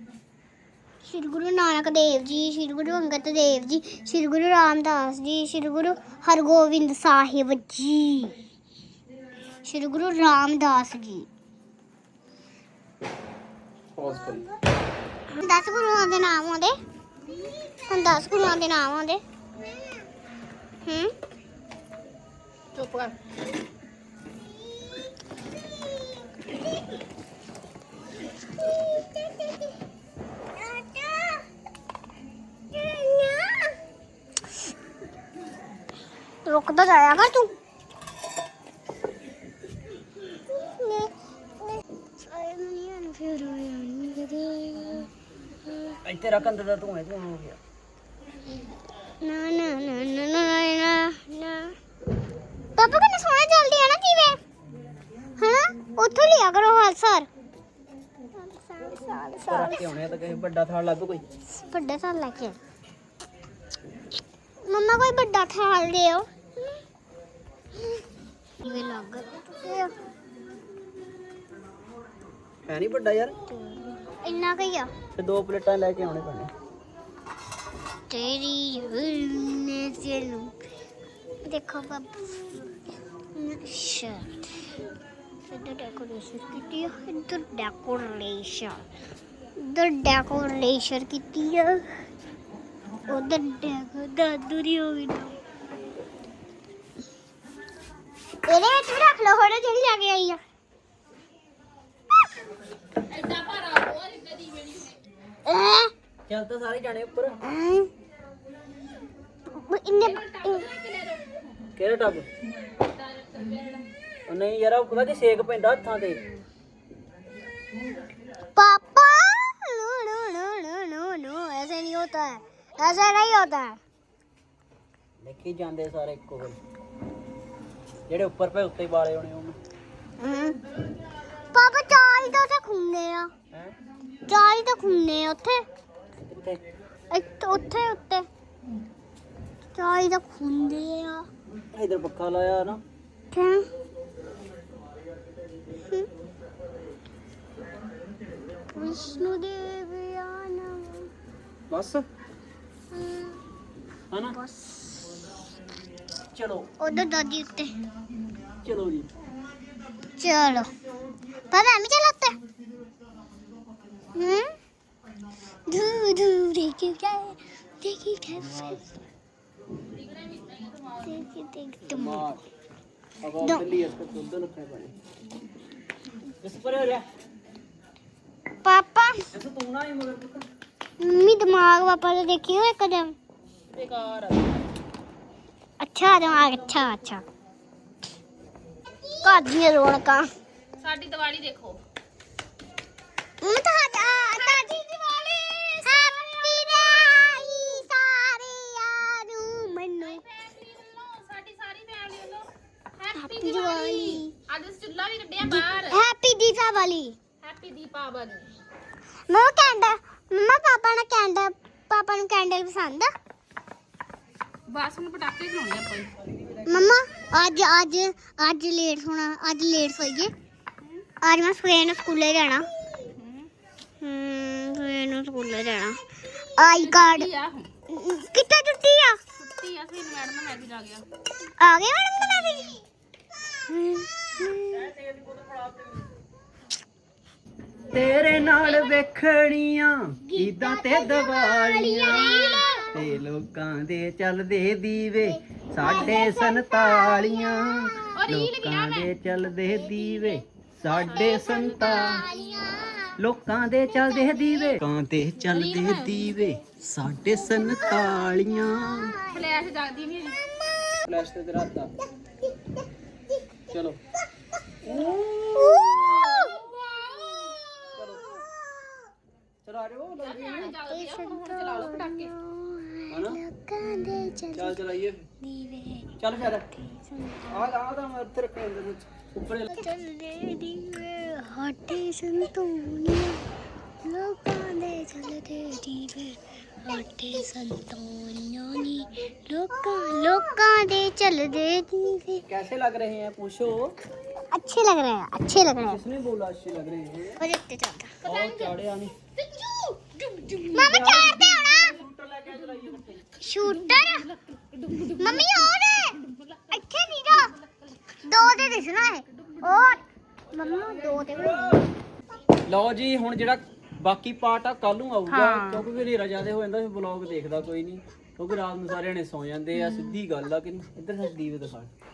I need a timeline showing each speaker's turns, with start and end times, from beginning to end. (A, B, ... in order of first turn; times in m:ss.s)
0:01.0-0:08.4 A
0:09.6-0:11.3 A
0:14.0-0:14.4 B
0:15.3-0:16.7 A
0:17.9-0:19.2 A
0:20.8-0:21.1 A
0:22.7-0:23.1 C
0:25.8-0:26.4 A
0:28.6-0:29.7 A
0:30.5-0:31.5 A
0:32.7-0:33.8 A
0:36.4-0:37.5 A
0:40.3-0:45.1 A
0:45.6-0:46.0 A
0:46.0-0:47.6 B
0:49.2-0:51.8 A
0:52.8-0:54.4 A
0:55.4-0:57.3 A
0:58.3-0:59.9 A
0:59.5-1:01.2 B
1:01.5-1:02.6 A
1:04.6-1:06.3 A
1:08.6-1:09.9 A
1:12.6-1:13.3 B
1:13.5-1:14.9 A
1:15.1-1:16.5 B
1:18.1-1:20.5 A
1:21.5-1:22.6 A
1:23.3-1:24.5 A
1:25.4-1:28.8 A
1:29.6-1:31.8 A
1:33.1-1:35.3 A
1:38.4-1:40.4 A
1:43.0-1:45.0 C
1:45.4-1:45.9 A
1:46.3-1:47.4 B
1:47.4-1:47.9 A
1:49.5-1:50.6 A
1:50.0-1:51.5 C
1:51.8-1:52.3 B
1:52.6-1:53.8 C
1:54.3-1:56.2 B
1:58.6-2:03.8 A
2:05.2-2:06.6 B
2:08.1-2:09.6 B
2:10.2-2:10.6 A
2:11.5-2:13.3 A
2:14.3-2:15.6 A
2:16.3-2:16.6 B
2:17.1-2:18.3 A
2:19.7-2:21.3 A
2:21.7-2:22.8 B
2:23.3-2:23.7 A
2:25.8-2:26.1 A
2:28.7-2:31.1 A
2:31.7-2:32.0 B
2:32.9-2:33.4 A
2:34.1-2:34.4 B
2:34.3-2:35.1 A
2:36.3-2:36.7 B
2:36.8-2:37.7 A
2:38.6-2:39.1 B
2:40.2-2:40.7 A
2:41.5-2:42.4 A
2:44.1-2:44.5 A
2:45.7-2:48.8 A
2:48.3-2:48.8 B
2:49.9-2:51.3 C
2:51.0-2:52.2 A
2:51.9-2:52.4 B
2:53.2-2:54.9 B
2:56.4-2:57.0 B
2:58.6-2:59.2 A
2:59.3-3:00.4 B
3:01.0-3:03.1 A
3:03.8-3:04.4 C
3:05.8-3:07.2 A
3:09.2-3:10.3 A
3:10.8-3:11.8 C
3:13.4-3:14.8 A
3:14.3-3:16.8 C
3:15.8-3:20.2 A
3:20.0-3:22.4 C
3:23.0-3:26.0 C
3:23.1-3:24.3 A
3:25.4-3:27.2 A
3:27.4-3:28.5 C
3:29.3-3:33.1 A
3:34.7-3:36.1 C
3:36.2-3:36.9 B
3:36.6-3:40.3 A
3:41.2-3:42.6 A
3:43.2-3:43.5 C
3:44.0-3:46.0 A
3:46.6-3:47.3 A
3:46.6-3:47.7 C
3:47.9-3:49.2 A
3:49.4-3:51.0 C
3:51.6-3:52.8 A
3:53.5-3:54.9 A
3:54.7-3:56.1 B
3:57.9-4:02.4 B
4:00.3-4:02.9 A
4:01.9-4:02.9 C
4:02.9-4:12.2 B
4:05.2-4:08.2 A
4:08.1-4:09.1 C
4:09.6-4:13.2 A
4:11.0-4:12.3 C
4:13.2-4:19.2 B
4:13.9-4:14.8 A
4:15.5-4:16.4 C
4:17.4-4:19.4 A
4:19.2-4:20.4 C
4:20.6-4:21.0 A
4:21.0-4:21.9 B
4:22.4-4:23.6 A
4:23.7-4:24.0 B
4:24.8-4:26.0 B
4:24.8-4:26.6 A
4:26.3-4:27.6 C
4:27.4-4:28.4 A
4:28.0-4:28.2 B
4:29.6-4:30.7 B
4:30.2-4:32.3 C
4:30.8-4:34.8 A
4:33.1-4:33.4 B
4:34.5-4:35.3 B
4:35.4-4:36.1 A
4:36.2-4:36.7 B
4:36.7-4:37.7 A
4:37.5-4:39.8 B
4:39.7-4:43.4 A
4:44.0-4:52.4 A
4:52.5-4:53.9 B
4:54.5-4:56.0 A
4:55.8-4:57.4 B
4:57.4-4:58.2 A
4:58.2-4:58.8 C
4:58.2-4:59.1 B
4:59.3-5:01.9 C
5:00.7-5:03.3 B
5:00.7-5:02.0 A
5:02.5-5:03.0 C
5:03.4-5:04.2 A
5:03.6-5:11.6 C
5:05.2-5:06.2 A
5:06.7-5:07.5 A
5:08.2-5:10.0 A
5:10.5-5:11.8 A
5:12.7-5:21.9 B
5:15.3-5:15.8 C
5:19.7-5:20.2 C